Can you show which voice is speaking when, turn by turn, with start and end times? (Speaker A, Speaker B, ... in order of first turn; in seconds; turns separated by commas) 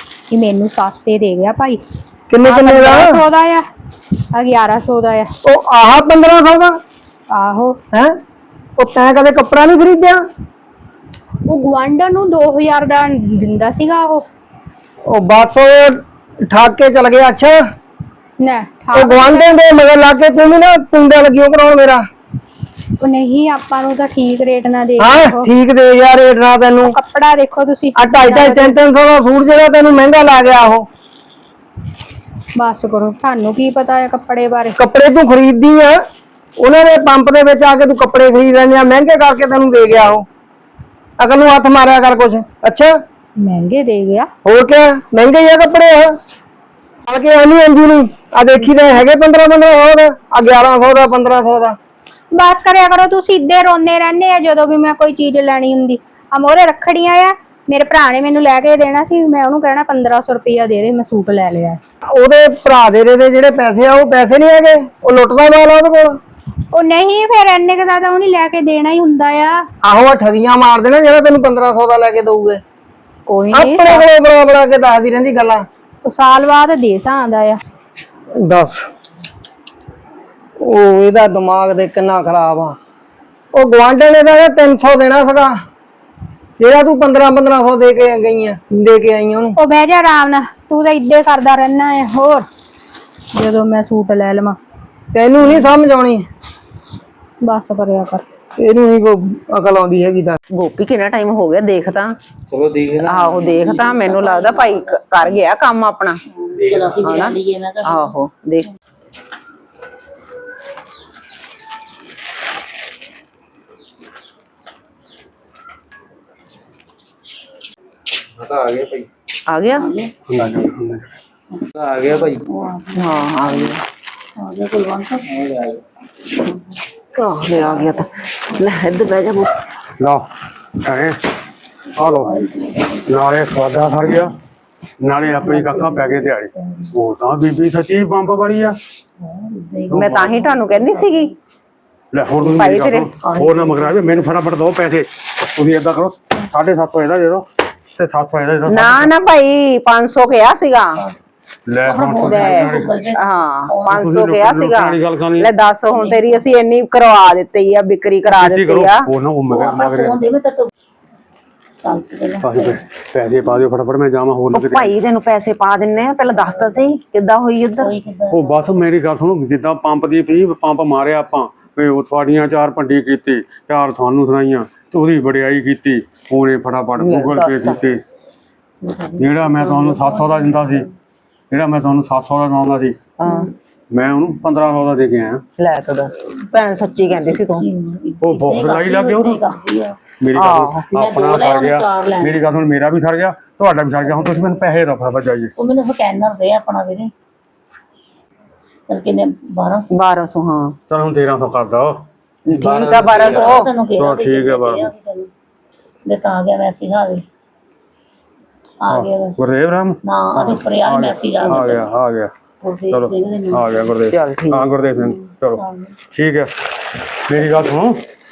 Speaker A: 0.3-1.8, Speaker B: 2.3-3.2, Speaker A: 2.4-3.6, Speaker A: 4.3-5.3, Speaker B: 5.4-6.8, Speaker A: 7.3-7.8, Speaker B: 7.9-8.2, Speaker B: 8.8-10.2, Speaker A: 11.5-14.2, Speaker B: 15.1-17.6, Speaker A: 18.4-19.5, Speaker B: 18.9-22.1, Speaker A: 23.0-25.5, Speaker B: 25.0-27.0, Speaker A: 26.8-28.8, Speaker B: 28.0-30.9, Speaker A: 32.6-34.8, Speaker B: 34.8-36.0, Speaker B: 36.6-40.3, Speaker B: 41.2-43.0, Speaker A: 43.4-44.3, Speaker B: 44.5-46.2, Speaker B: 47.1-51.8, Speaker A: 52.3-61.8, Speaker B: 62.1-66.2, Speaker A: 66.7-69.6, Speaker B: 69.8-72.6, Speaker A: 73.3-74.1, Speaker B: 73.5-75.7, Speaker A: 76.0-77.6, Speaker B: 78.4-78.9, Speaker B: 80.6-82.8, Speaker B: 83.5-85.6, Speaker B: 86.6-89.5, Speaker A: 89.6-92.5, Speaker A: 93.3-94.6, Speaker B: 95.1-96.3, Speaker A: 97.4-98.2, Speaker B: 98.6-100.4, Speaker C: 100.5-102.2, Speaker D: 102.5-104.0, Speaker C: 103.0-106.2, Speaker E: 103.5-105.4, Speaker E: 106.5-108.1, Speaker D: 106.6-107.2, Speaker C: 107.0-108.7, Speaker D: 118.4-119.1, Speaker C: 119.5-119.9, Speaker E: 119.7-120.1, Speaker F: 120.3-121.1, Speaker D: 121.8-122.5, Speaker E: 122.2-123.8, Speaker C: 123.0-123.8, Speaker E: 124.4-125.2, Speaker D: 125.3-125.8, Speaker C: 127.2-129.6, Speaker E: 127.6-128.0, Speaker F: 130.0-130.3, Speaker F: 130.8-131.2, Speaker F: 132.0-132.3, Speaker E: 132.2-132.9, Speaker F: 133.1-134.3, Speaker F: 135.0-138.8, Speaker E: 135.2-136.9, Speaker E: 139.2-141.3, Speaker F: 139.9-140.3, Speaker C: 139.9-141.3, Speaker F: 142.1-149.1, Speaker C: 142.4-143.1, Speaker E: 143.2-144.3, Speaker C: 148.7-151.0, Speaker F: 151.7-152.9, Speaker E: 151.8-154.1, Speaker C: 152.2-159.1, Speaker F: 153.9-155.5, Speaker E: 155.9-156.4, Speaker F: 158.3-160.2, Speaker E: 159.5-160.7, Speaker E: 161.8-162.8, Speaker F: 162.4-164.9, Speaker C: 164.5-167.9, Speaker E: 166.4-166.8, Speaker E: 167.8-168.6, Speaker F: 168.3-178.0, Speaker C: 177.0-177.8, Speaker E: 179.1-180.8, Speaker F: 179.2-180.9, Speaker F: 181.5-183.0, Speaker C: 183.2-183.5, Speaker F: 183.9-185.4, Speaker C: 185.6-187.7, Speaker E: 187.1-190.0, Speaker F: 188.2-189.4, Speaker F: 190.2-195.5, Speaker C: 190.4-190.8, Speaker E: 190.9-192.4, Speaker E: 195.6-197.1, Speaker E: 198.9-199.9, Speaker C: 199.9-200.8, Speaker F: 200.9-202.0, Speaker C: 202.5-203.7, Speaker D: 202.5-203.7, Speaker E: 203.0-205.3, Speaker F: 204.0-204.9, Speaker E: 206.1-207.2, Speaker E: 208.8-209.4, Speaker F: 208.9-212.3, Speaker E: 210.1-211.9, Speaker E: 212.6-213.9, Speaker F: 212.9-215.6, Speaker C: 214.1-214.7, Speaker E: 215.0-215.9, Speaker F: 216.1-216.5, Speaker F: 217.3-218.0